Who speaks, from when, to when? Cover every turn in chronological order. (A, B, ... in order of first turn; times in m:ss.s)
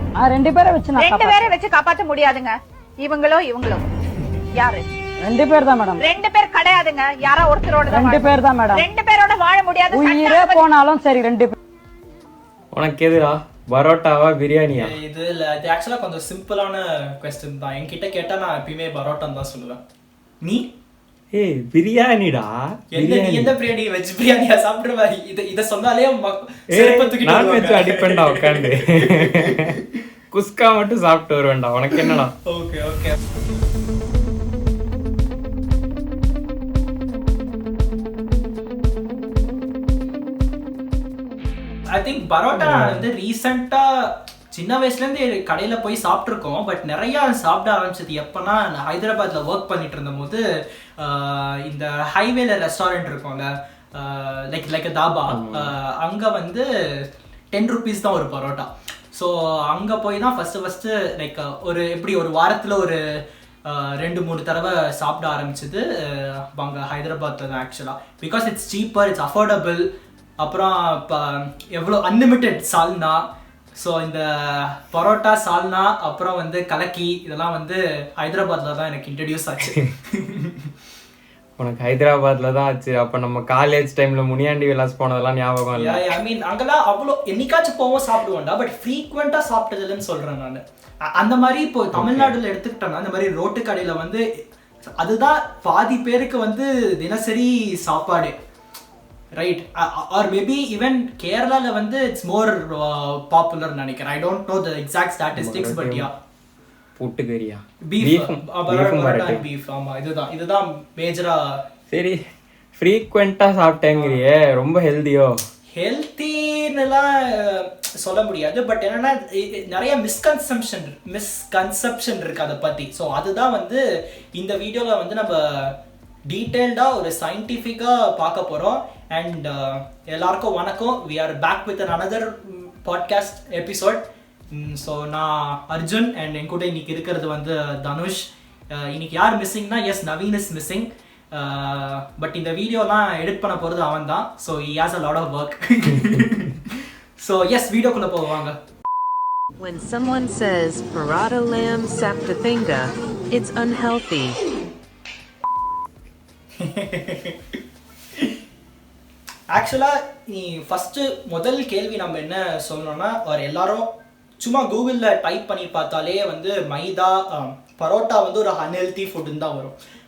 0:00.2-0:01.6 A
0:01.0-0:03.8 B
0:04.5-0:04.9 B
0:05.2-0:06.0 A
0:06.0-0:10.7 B
0:07.9-0:08.8 A
0:09.9-0:11.5 A
0:12.7-0:15.0 C
0:14.8-0:19.8 D
0:20.4-0:20.7 D
0:21.3-0:23.5 C
0:22.9-0:29.8 D
0:26.7-0:29.8 C
0:30.3-0:32.3 C
0:32.1-0:33.2 D
0:41.9-0:50.4 D
0:42.5-0:43.0 C
0:51.0-1:03.0 D
0:55.3-0:55.8 C
1:03.6-1:09.9 D
1:10.4-1:20.7 D
1:21.6-1:26.1 C
1:25.7-1:30.6 D
1:31.1-1:34.2 D
1:31.9-1:32.4 C
1:35.0-1:38.3 D
1:39.4-1:46.1 D
1:45.3-1:46.1 C
1:47.0-1:49.4 C
1:47.9-1:51.6 D
1:51.9-1:52.2 C
1:52.8-1:55.4 C
1:53.9-1:54.2 D
1:55.7-2:03.8 D
2:04.3-2:05.7 D
2:06.3-2:28.6 D
2:25.9-2:26.2 C
2:29.6-2:34.4 E
2:36.6-2:37.5 D
2:39.5-2:43.9 D
2:44.4-2:49.8 D